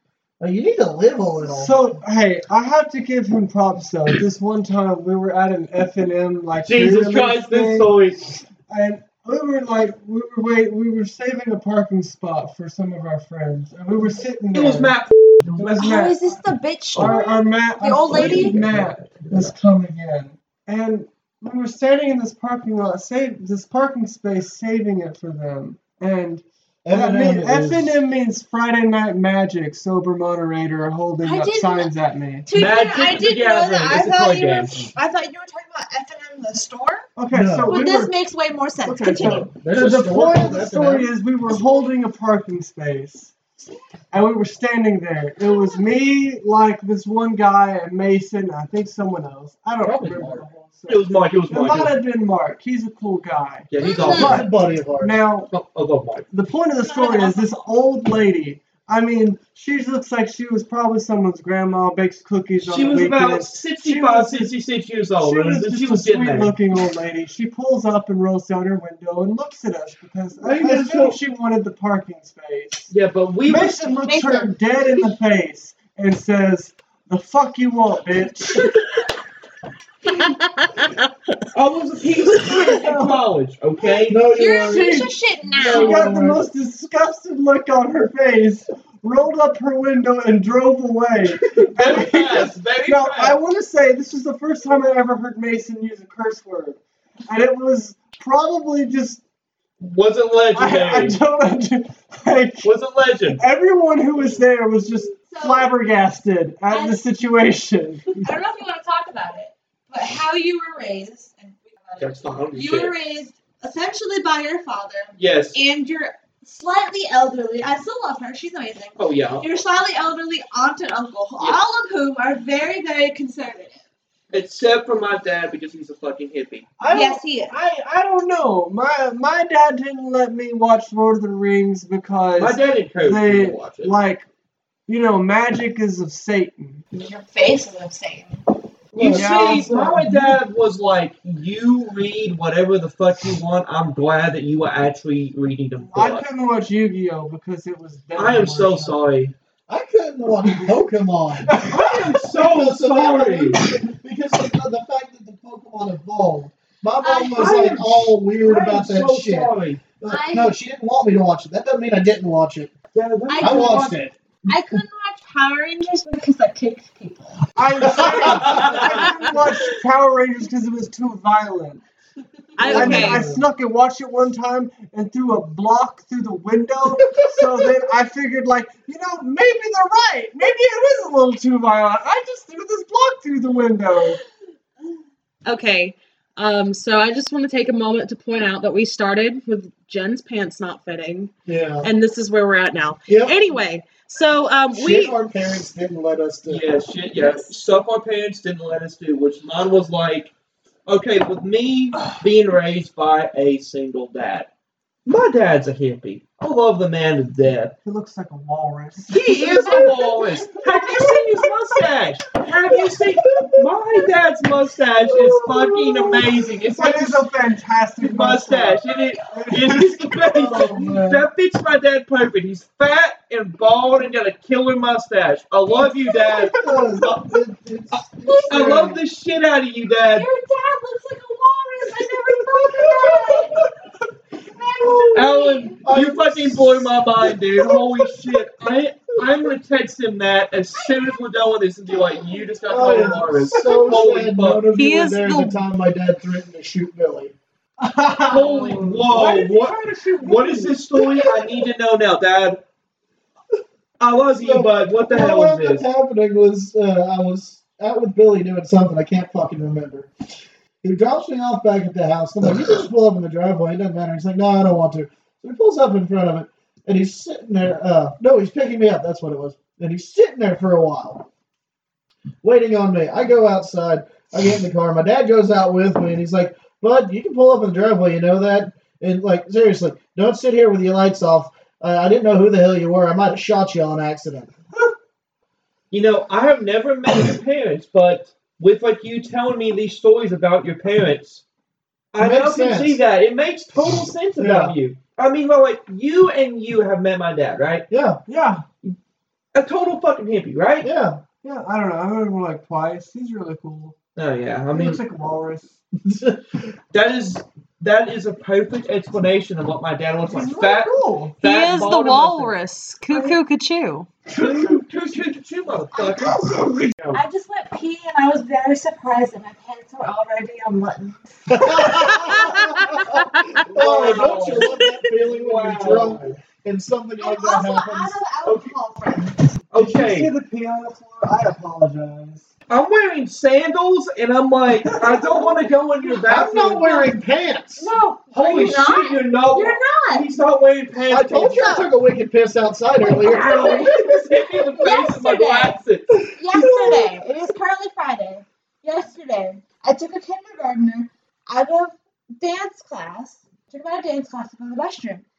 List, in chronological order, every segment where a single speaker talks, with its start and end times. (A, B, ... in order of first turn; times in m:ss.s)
0:00.4-0:01.8 A
0:01.5-0:07.9 B
0:06.6-0:08.4 C
0:08.7-0:15.0 B
0:14.5-0:15.8 C
0:15.6-0:16.2 B
0:15.8-0:18.6 D
0:17.0-0:32.5 B
0:18.1-0:19.5 C
0:26.8-0:28.0 A
0:31.2-0:31.9 D
0:32.4-0:37.1 D
0:32.5-0:34.9 C
0:37.2-0:38.2 B
0:37.3-0:37.9 A
0:37.7-0:39.5 D
0:38.8-0:43.3 B
0:39.2-0:41.1 A
0:44.1-0:55.5 B
0:49.8-0:50.5 A
0:50.9-0:52.0 C
0:53.7-0:54.5 C
0:53.8-0:54.3 D
0:54.0-0:55.2 A
0:55.5-0:56.3 C
0:56.3-1:04.5 B
0:56.8-0:57.6 D
1:02.6-1:06.6 C
1:05.2-1:12.9 B
1:10.4-1:11.2 C
1:12.9-1:13.8 C
1:13.5-1:18.7 B
1:14.1-1:14.4 D
1:14.1-1:14.5 A
1:21.5-1:24.2 C
1:22.6-1:23.2 B
1:24.0-1:26.4 A
1:24.3-1:26.1 D
1:24.6-1:25.1 B
1:25.6-1:39.2 B
1:31.5-1:33.4 C
1:39.8-1:41.2 C
1:40.5-1:42.7 B
1:42.6-1:43.4 C
1:43.3-1:48.3 B
1:45.3-1:45.7 D
1:46.7-1:47.0 D
1:48.2-2:03.8 D
1:52.0-1:53.0 C
1:55.2-1:55.6 C
1:59.0-1:59.4 C
2:04.3-2:06.7 C
2:06.8-2:14.3 B
2:06.9-2:07.5 D
2:12.4-2:14.0 C
2:14.9-2:16.8 B
2:16.9-2:18.4 D
2:18.9-2:19.6 A
2:18.9-2:20.4 B
2:19.0-2:26.2 C
2:25.9-2:29.0 B
2:28.2-2:29.3 C
2:29.7-2:31.7 A
2:31.5-2:32.2 B
2:31.7-2:33.7 C
2:32.3-2:42.8 A
2:37.0-2:37.6 D
2:37.3-2:39.8 C
2:40.0-2:40.6 D
2:42.9-2:44.1 C
2:43.3-2:43.9 D
2:43.4-2:44.1 A
2:44.5-2:47.4 D
2:47.6-2:51.8 B
2:47.9-2:49.0 A
2:48.3-2:49.0 C
2:52.6-2:53.3 E
2:52.6-2:53.4 A
2:52.6-3:04.2 B
3:05.4-3:15.2 E
3:11.5-3:11.9 A
3:13.1-3:13.4 A
3:14.7-3:16.7 A
3:16.5-3:20.3 C
3:20.9-3:24.5 C
3:25.1-3:27.8 C
3:27.8-3:31.5 B
3:29.1-3:37.2 C
3:29.6-3:29.9 A
3:36.7-3:41.2 B
3:38.0-3:50.3 C
3:46.2-3:47.0 B
3:46.6-3:49.0 A
3:48.2-3:48.9 D
3:49.9-3:53.7 D
3:54.5-3:55.8 D
3:54.8-3:57.3 A
3:55.1-4:04.6 C
4:02.7-4:07.3 A
4:04.7-4:05.6 E
4:07.8-4:11.4 B
4:08.3-4:12.6 C
4:14.0-4:15.8 C
4:14.4-4:20.1 A
4:20.8-4:31.3 A
4:32.4-4:44.5 A
4:45.9-4:51.4 C
4:52.1-4:57.9 C
4:52.2-4:53.0 A
4:54.4-4:54.8 A
4:57.9-4:58.2 A
4:58.3-4:58.6 B
4:59.5-5:00.9 C
5:00.8-5:01.2 A
5:01.4-5:04.0 B
5:04.2-5:05.0 C
5:04.7-5:05.7 B
5:06.0-5:06.6 A
5:06.9-5:12.6 C
5:10.3-5:11.4 B
5:11.4-5:14.1 E
5:13.1-5:13.4 B
5:14.3-5:14.8 B
5:14.3-5:17.2 C
5:16.2-5:16.9 B
5:17.1-5:22.3 D
5:21.5-5:28.2 A
5:23.7-5:26.4 C
5:27.2-5:29.4 D
5:28.4-5:28.8 C
5:29.7-5:30.3 C
5:29.8-5:32.5 B
5:32.7-5:37.1 C
5:34.9-5:35.6 B
5:36.3-5:37.9 A
5:37.8-5:40.3 D
5:38.3-5:41.7 C
5:41.1-5:43.9 A
5:41.5-5:41.9 D
5:43.1-5:47.0 C
5:43.2-5:45.8 D
5:46.3-5:55.2 D